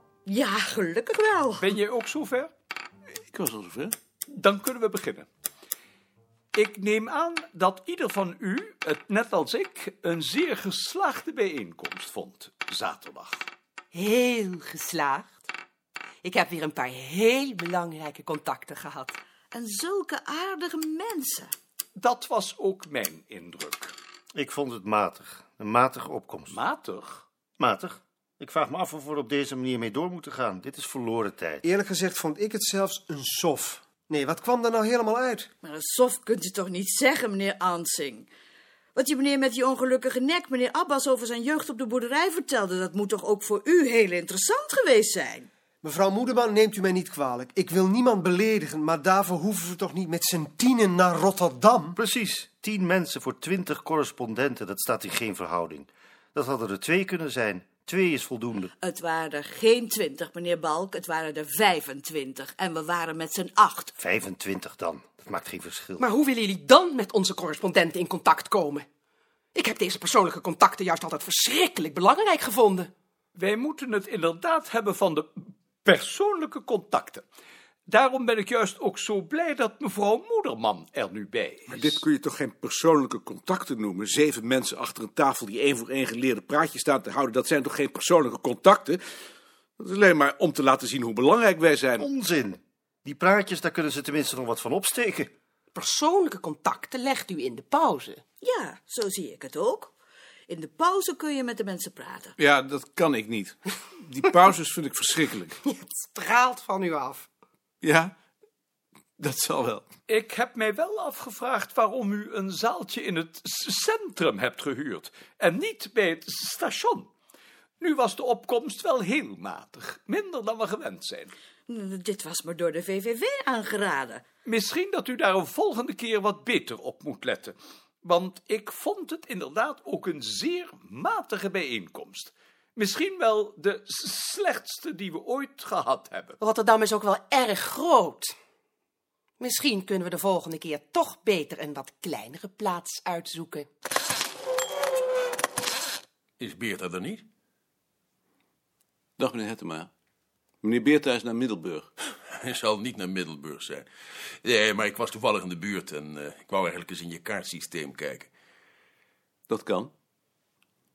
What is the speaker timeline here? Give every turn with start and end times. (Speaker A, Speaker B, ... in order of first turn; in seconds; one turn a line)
Speaker A: 0.2-1.7
Speaker B: 1.6-2.5
Speaker C: 3.3-4.0
Speaker B: 4.3-5.3
Speaker B: 6.5-13.4
Speaker D: 13.9-15.5
Speaker D: 16.2-19.1
Speaker A: 19.5-21.5
Speaker B: 22.0-23.9
Speaker E: 24.3-26.6
Speaker B: 26.5-27.2
Speaker E: 27.6-31.6
Speaker F: 31.6-35.5
Speaker A: 35.6-38.3
Speaker A: 38.9-45.5
Speaker F: 45.8-52.0
Speaker E: 51.9-58.7
Speaker A: 58.8-63.9
Speaker E: 64.0-66.1
Speaker D: 66.0-68.8
Speaker D: 69.5-72.9
Speaker B: 73.3-77.2
Speaker B: 77.9-82.0
Speaker C: 81.7-89.0
Speaker C: 89.8-92.1
Speaker E: 92.0-95.3
Speaker D: 95.7-98.2
Speaker A: 98.4-99.9
Speaker A: 100.5-102.3
Speaker C: 102.4-105.5
Speaker D: 105.7-107.2
Speaker C: 107.8-108.1
Speaker C: 109.2-109.8
Speaker B: 110.1-117.1
Speaker B: 117.8-121.3
Speaker A: 121.7-124.2
Speaker B: 124.4-136.3
Speaker D: 136.4-138.3
Speaker D: 139.4-143.6
Speaker G: 146.4-147.2
Speaker C: 149.2-149.9
Speaker C: 150.6-151.9
Speaker G: 152.3-153.9
Speaker G: 154.4-158.3
Speaker C: 159.5-159.9